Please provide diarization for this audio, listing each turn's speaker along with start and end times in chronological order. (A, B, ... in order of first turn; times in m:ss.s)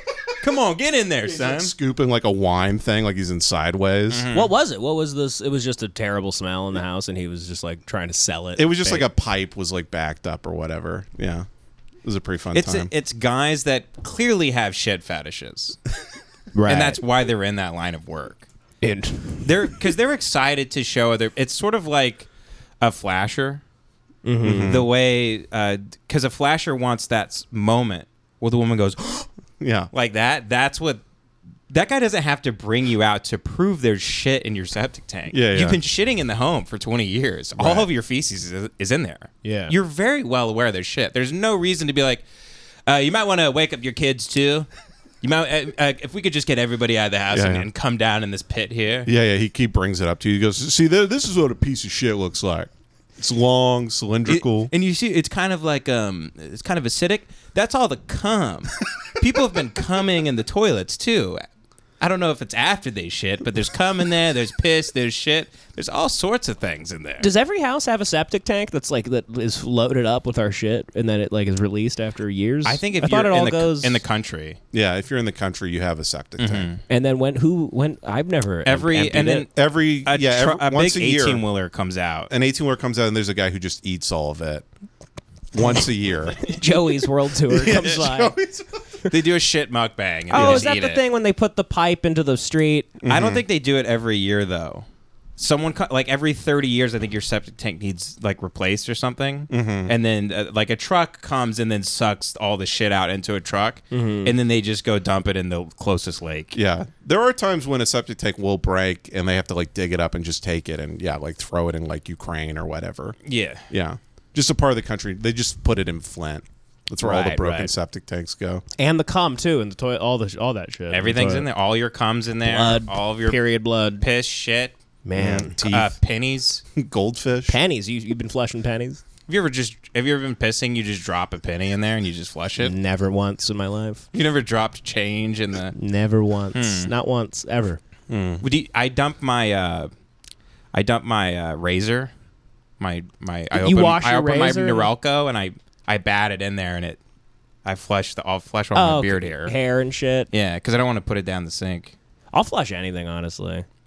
0:00.4-0:01.7 A
0:01.2-0:04.3 B
0:04.1-0:04.5 A
0:04.3-0:09.0 C
0:08.6-0:11.4 B
0:12.0-0:12.9 B
0:12.5-0:15.8 A
0:16.5-0:17.0 C
0:16.7-0:18.4 A
0:18.8-0:19.5 C
0:19.4-0:22.3 A
0:22.8-0:23.6 A
0:24.2-0:24.8 C
0:24.4-0:24.9 B
0:24.5-0:29.3 A
0:29.6-0:29.9 B
0:29.9-0:31.0 A
0:31.7-0:42.2 A
0:35.3-0:35.8 B
0:37.6-0:37.9 B
0:39.4-0:39.7 C
0:42.8-0:44.7 A
0:45.2-0:49.1 A
0:47.3-0:47.7 B
0:49.0-0:54.7 B
0:54.3-1:01.4 A
1:02.0-1:07.3 A
1:07.2-1:14.0 C
1:12.6-1:14.6 A
1:14.7-1:16.7 B
1:16.4-1:16.8 A
1:16.9-1:19.4 C
1:18.6-1:22.3 A
1:19.5-1:21.4 B
1:22.3-1:24.6 B
1:25.5-1:26.5 B
1:26.4-1:28.3 C
1:27.4-1:29.0 B
1:29.1-1:31.0 A
1:30.3-1:32.9 C
1:30.3-1:30.6 B
1:33.0-1:33.4 B
1:33.1-1:34.8 A
1:35.4-1:46.6 A
1:39.5-1:39.9 B
1:43.9-1:44.3 C
1:46.5-1:53.2 B
1:53.2-1:53.6 A
1:53.7-1:58.6 B
1:57.0-1:57.7 C
1:58.8-2:01.5 C
2:00.9-2:03.4 A
2:02.4-2:04.0 C
2:04.0-2:04.8 A
2:05.0-2:05.5 C
2:05.2-2:05.9 B
2:05.6-2:06.6 A
2:06.7-2:07.6 B
2:07.5-2:09.0 C
2:09.3-2:12.7 A
2:12.6-2:14.0 C
2:14.1-2:15.7 A
2:15.7-2:17.8 C
2:16.5-2:16.9 A
2:18.1-2:18.4 B
2:18.4-2:19.9 A
2:20.7-2:22.1 A
2:22.8-2:27.0 A
2:23.5-2:24.9 C
2:27.6-2:29.5 A
2:28.7-2:30.3 C
2:30.3-2:31.9 A
2:32.3-2:33.6 C